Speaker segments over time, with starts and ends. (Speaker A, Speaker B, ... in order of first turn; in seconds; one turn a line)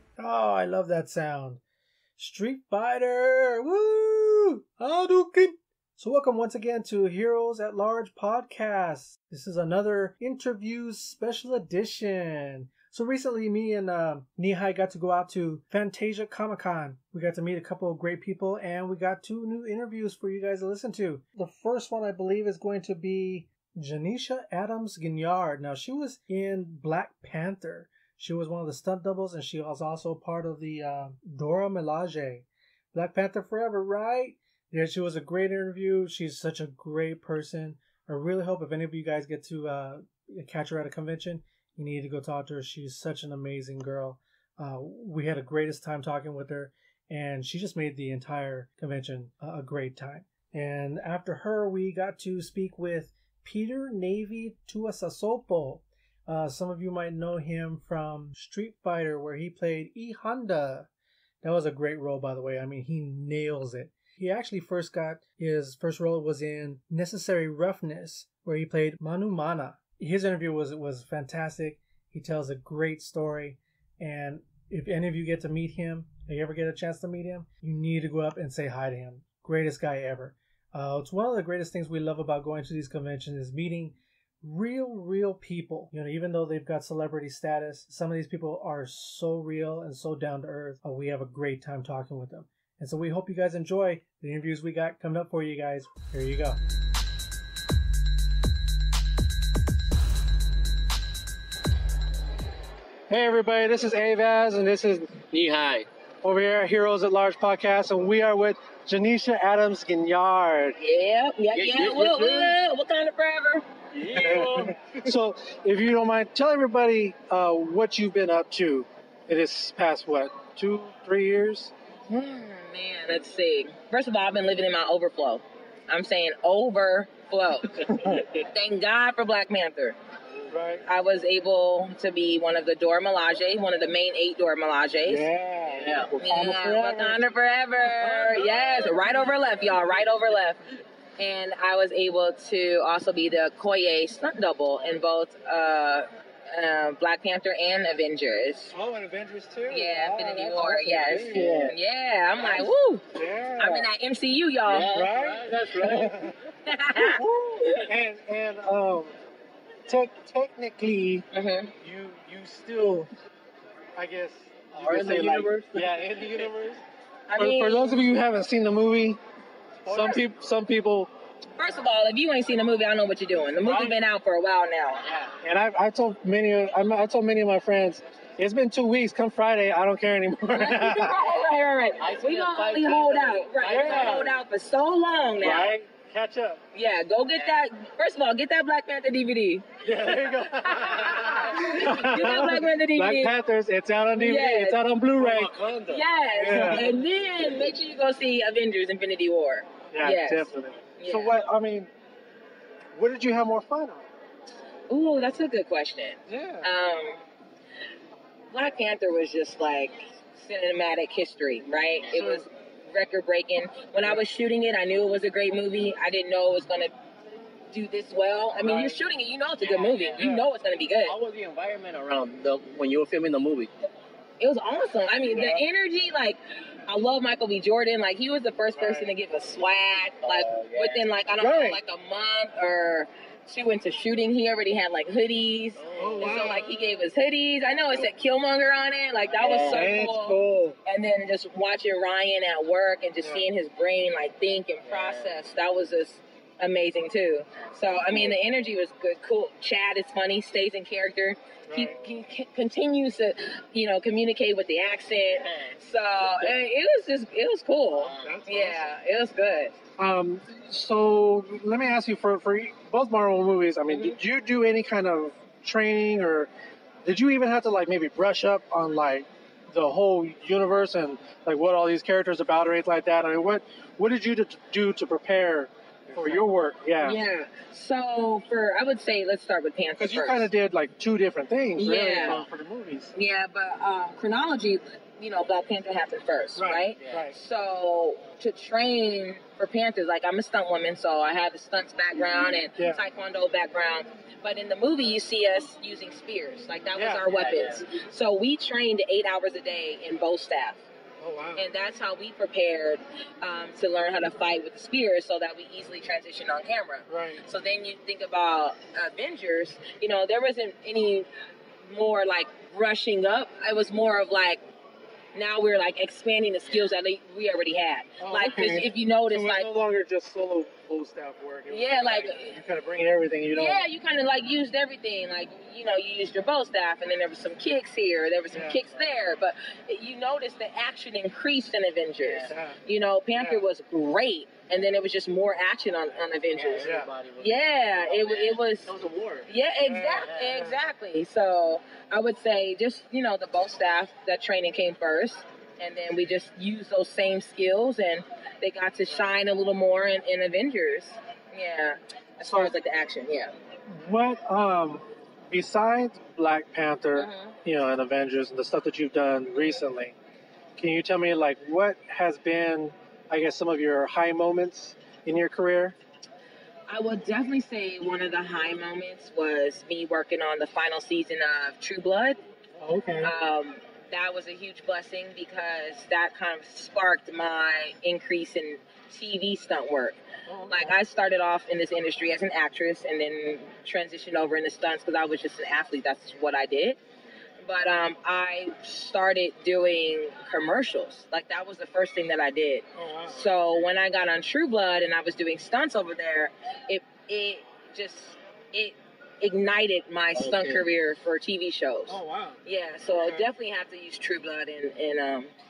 Speaker A: 0.2-1.6
Speaker A: 2.2-60.9
Speaker A: 61.4-96.6
Speaker A: 103.1-105.2
Speaker B: 105.3-105.9
Speaker A: 106.2-110.8
Speaker C: 110.8-113.7
Speaker B: 111.5-112.5
Speaker B: 113.9-115.1
Speaker A: 114.1-121.7
Speaker C: 122.1-130.0
Speaker A: 127.9-128.2
Speaker B: 128.1-128.4
Speaker A: 130.5-130.8
Speaker C: 130.9-135.3
Speaker A: 135.1-137.2
Speaker B: 135.7-136.1
Speaker C: 136.2-140.6
Speaker B: 137.8-140.0
Speaker C: 141.2-148.7
Speaker A: 148.7-151.7
Speaker C: 149.7-153.1
Speaker B: 151.3-151.7
Speaker A: 152.4-153.9
Speaker C: 153.6-154.9
Speaker B: 154.7-156.3
Speaker A: 154.9-156.4
Speaker C: 156.7-157.8
Speaker A: 156.9-159.1
Speaker A: 159.9-161.3
Speaker C: 161.3-161.7
Speaker A: 161.8-163.1
Speaker A: 164.0-166.8
Speaker B: 164.8-166.5
Speaker C: 167.3-168.0
Speaker A: 167.4-169.2
Speaker A: 169.8-171.1
Speaker C: 169.9-170.2
Speaker C: 171.6-175.0
Speaker A: 173.6-174.0
Speaker B: 175.0-175.3
Speaker A: 175.4-181.2
Speaker C: 180.5-185.7
Speaker B: 182.0-184.4
Speaker A: 183.7-184.3
Speaker A: 185.4-186.6
Speaker C: 186.7-193.3
Speaker A: 189.8-195.5
Speaker B: 191.1-191.6
Speaker C: 194.2-194.8
Speaker B: 195.1-197.7
Speaker C: 195.9-200.5
Speaker A: 196.3-196.9
Speaker A: 199.9-201.9
Speaker C: 201.0-201.4
Speaker A: 202.9-204.1
Speaker C: 204.9-207.2
Speaker A: 206.3-206.7
Speaker C: 208.5-216.9
Speaker B: 212.1-212.4
Speaker C: 217.7-221.2
Speaker B: 218.6-219.0
Speaker B: 219.6-220.3
Speaker A: 220.2-220.5
Speaker B: 221.0-223.7
Speaker C: 224.4-259.8
Speaker A: 225.4-225.6
Speaker A: 228.8-229.1
Speaker B: 230.2-231.0
Speaker A: 231.4-231.8
Speaker B: 235.8-236.6
Speaker A: 236.0-236.8
Speaker B: 239.3-239.9
Speaker A: 239.7-240.8
Speaker B: 244.9-245.4
Speaker B: 247.6-248.4
Speaker A: 251.7-252.0
Speaker B: 255.3-256.5
Speaker B: 258.0-258.4
Speaker A: 258.2-258.8
Speaker A: 260.0-266.5
Speaker C: 263.9-264.2
Speaker A: 267.1-277.2
Speaker C: 277.0-280.5
Speaker A: 280.0-283.1
Speaker C: 281.8-282.4
Speaker B: 282.1-282.5
Speaker C: 283.1-300.8
Speaker A: 286.6-287.4
Speaker A: 296.9-297.2
Speaker B: 297.3-297.8
Speaker A: 301.2-301.6
Speaker C: 301.6-311.3
Speaker A: 307.1-307.4
Speaker C: 311.9-314.6
Speaker C: 315.4-319.7
Speaker A: 318.2-323.8
Speaker C: 321.7-322.6
Speaker C: 323.5-338.9
Speaker A: 328.5-328.8
Speaker B: 332.2-332.5
Speaker A: 332.5-332.8
Speaker A: 333.4-333.6
Speaker B: 336.5-337.5
Speaker A: 336.8-337.1
Speaker B: 338.1-339.5
Speaker C: 339.5-353.5
Speaker A: 339.8-340.7
Speaker B: 340.2-340.7
Speaker A: 353.9-360.1
Speaker C: 357.1-357.6
Speaker A: 360.8-365.9
Speaker C: 366.9-372.4
Speaker A: 372.8-373.3
Speaker C: 373.2-387.0
Speaker A: 380.5-380.9
Speaker C: 387.6-405.5
Speaker A: 393.0-393.5
Speaker B: 400.4-400.9
Speaker A: 402.1-402.6
Speaker A: 403.1-403.5